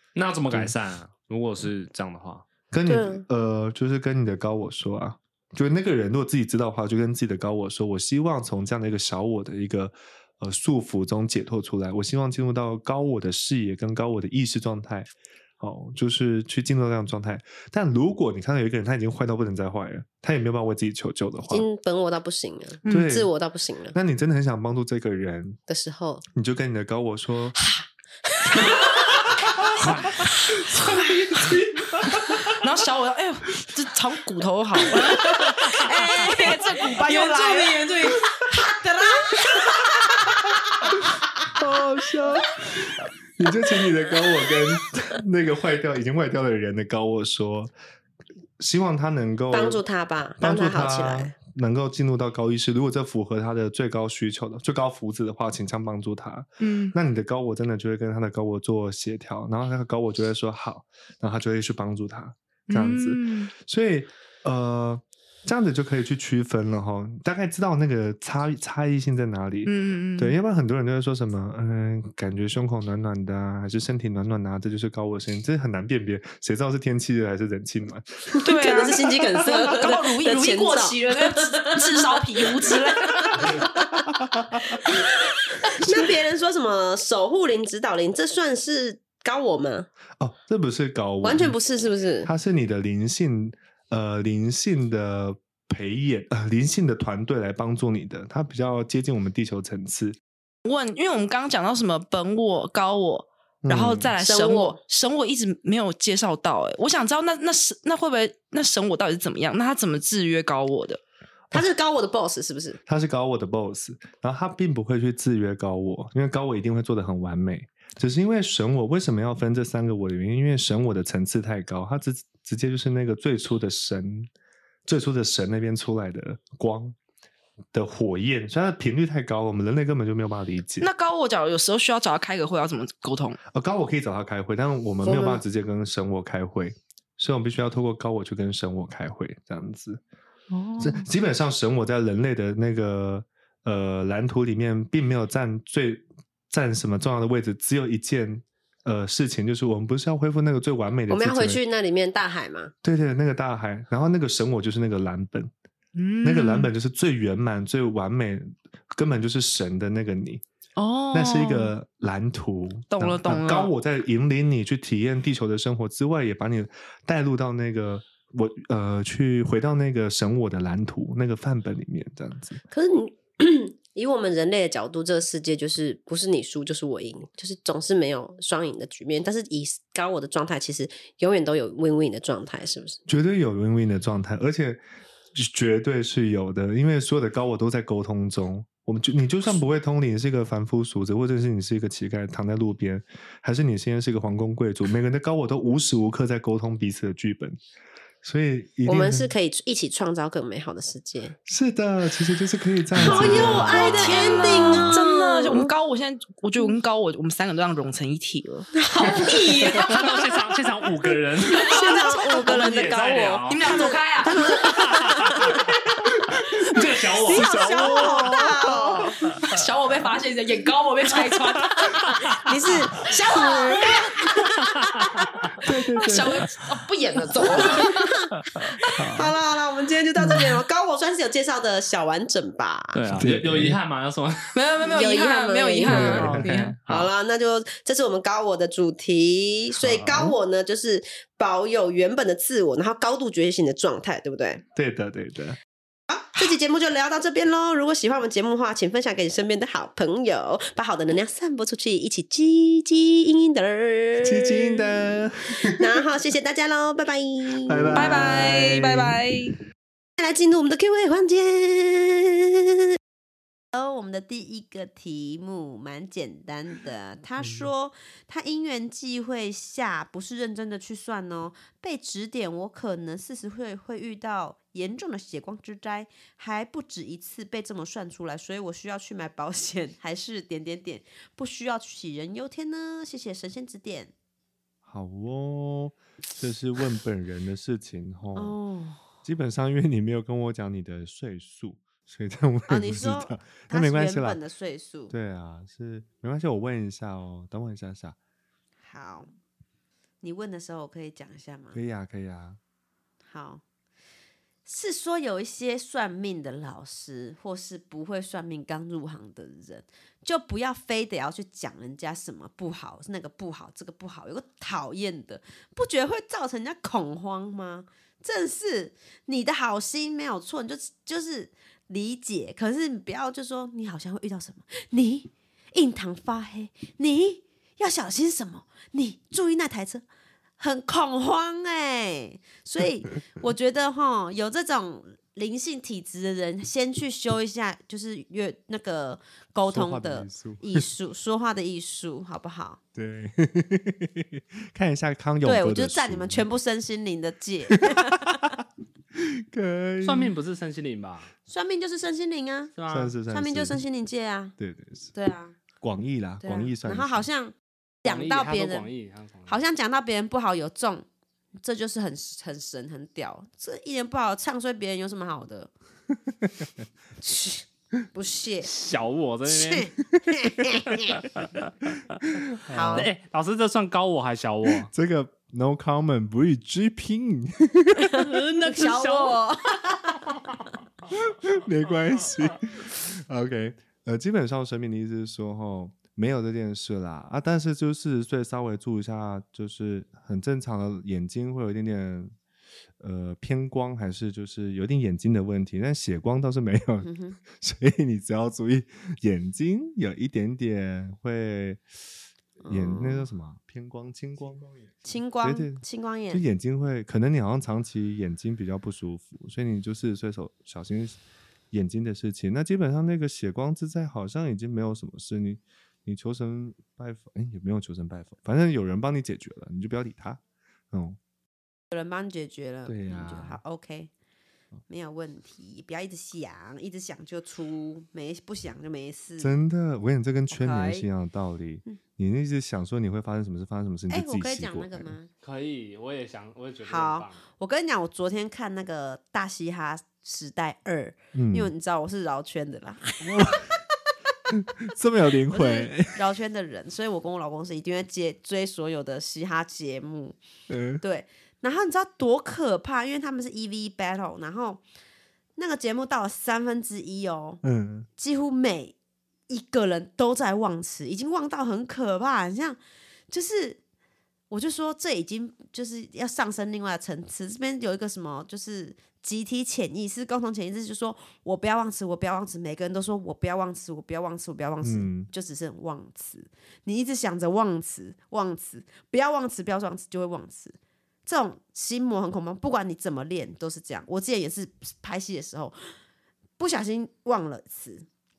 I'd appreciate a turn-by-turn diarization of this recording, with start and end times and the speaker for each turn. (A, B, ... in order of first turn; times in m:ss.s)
0:00.1-0:02.4 A
0:02.7-0:21.6 B
0:02.8-0:03.2 C
0:21.5-0:23.9 C
0:22.8-0:23.1 D
0:22.8-0:23.3 B
0:23.9-0:25.6 B
0:25.7-0:26.2 C
0:26.3-0:27.6 B
0:27.6-0:29.4 C
0:29.8-0:30.2 A
0:30.7-0:31.6 C
0:32.5-0:38.1 D
0:35.0-0:41.1 C
0:41.5-0:47.7 B
0:48.6-0:49.8 B
0:49.5-0:51.3 C
0:50.4-1:18.3 B
0:56.6-0:56.9 D
1:02.7-1:03.5 D
1:09.6-1:10.3 D
1:18.3-1:24.1 C
1:18.4-1:23.6 D
1:24.6-1:29.9 C
1:30.2-1:31.5 B
1:31.2-1:32.3 C
1:32.2-1:40.2 B
1:40.6-1:51.0 D
1:43.6-1:44.1 B
1:44.2-1:44.8 C
1:51.5-1:52.8 C
1:52.8-2:04.3 B
2:04.8-2:07.0 B
2:07.7-2:10.9 B
2:10.8-2:13.4 D
2:13.5-2:20.0 B
2:15.0-2:15.4 C
2:20.5-2:21.0 D
2:20.8-2:31.6 B
2:31.1-2:32.7 C
2:32.8-2:35.5 B
2:36.0-2:36.7 D
2:36.2-2:40.4 B
2:40.8-2:41.7 D
2:41.1-2:52.6 B
2:42.9-2:43.7 D
2:52.7-3:03.0 C
3:03.1-3:04.8 B
3:05.3-3:17.6 B
3:18.2-3:19.3 B
3:18.8-3:21.3 C
3:21.4-3:24.0 B
3:23.0-3:25.7 C
3:23.0-3:28.7 D
3:28.7-3:30.0 C
3:29.6-3:33.9 A
3:31.5-3:35.6 C
3:31.6-3:32.4 D
3:33.5-3:34.6 D
3:34.4-3:35.7 A
3:36.2-3:38.8 B
3:36.4-3:38.2 A
3:37.2-3:39.2 C
3:39.4-3:42.4 D
3:41.8-3:42.2 A
3:42.1-3:44.7 C
3:44.6-3:45.3 A
3:45.6-3:46.4 B
3:46.0-3:48.1 D
3:47.4-3:48.3 C
3:48.9-3:53.0 C
3:49.0-3:49.3 B
3:50.2-3:50.5 B
3:52.9-3:54.6 A
3:53.1-3:53.8 B
3:54.5-3:56.7 D
3:54.9-4:04.6 C
3:55.9-3:56.7 B
3:55.9-3:57.1 A
3:59.8-4:00.4 B
4:04.7-4:05.6 B
4:06.1-4:18.4 C
4:14.2-4:16.0 B
4:17.6-4:19.2 B
4:17.9-4:19.6 D
4:20.2-4:22.5 C
4:23.7-4:44.1 C
4:27.4-4:27.7 B
4:44.8-4:48.6 B
4:48.3-4:49.0 C
4:49.2-4:54.4 B
4:52.7-4:55.1 C
4:55.1-4:58.2 B
4:58.8-4:59.3 C
5:00.2-5:01.8 C
5:01.7-5:02.6 B
5:03.3-5:03.6 C
5:04.6-5:30.0 C
5:30.6-5:42.8 C
5:39.7-5:40.8 B
5:42.9-5:46.4 B
5:45.4-5:48.5 C
5:49.1-5:50.3 B
5:50.0-5:51.3 A
5:51.5-5:52.7 C
5:52.8-5:53.1 A
5:52.9-5:53.8 B
5:53.3-5:54.5 C
5:54.6-5:55.1 B
5:55.1-5:55.6 C
5:55.8-5:57.3 B
5:56.4-5:58.9 C
5:58.0-5:59.6 A
5:59.5-6:01.0 C
6:01.6-6:05.7 C
6:06.4-6:06.7 B
6:07.2-6:08.7 C
6:08.6-6:09.9 A
6:09.4-6:11.2 C
6:11.2-6:11.5 A
6:12.5-6:13.1 B
6:12.7-6:13.1 C
6:12.9-6:14.9 A
6:14.8-6:18.2 B
6:18.0-6:20.2 C
6:18.4-6:19.3 A
6:21.1-6:32.3 B
6:33.0-6:41.8 B
6:37.0-6:37.4 C
6:42.6-6:43.3 C
6:42.6-6:51.2 B
6:45.0-6:46.4 C
6:51.7-7:01.2 B
7:01.9-7:04.1 C
7:02.8-7:03.6 B
7:04.9-7:09.5 C
7:09.4-7:15.1 B
7:10.5-7:11.0 C
7:14.1-7:15.3 C
7:15.4-7:17.4 A
7:16.8-7:23.8 C
7:21.3-7:21.7 B
7:23.2-7:23.7 B
7:24.5-7:26.2 B
7:25.5-7:30.4 C
7:30.7-7:31.0 B
7:31.0-7:34.8 C
7:35.6-7:37.6 C
7:37.6-7:38.1 B
7:38.2-7:38.9 C
7:39.5-7:42.8 C
7:43.3-7:43.8 C
7:44.5-8:06.0 C
7:54.8-7:55.3 B
8:06.6-8:08.1 C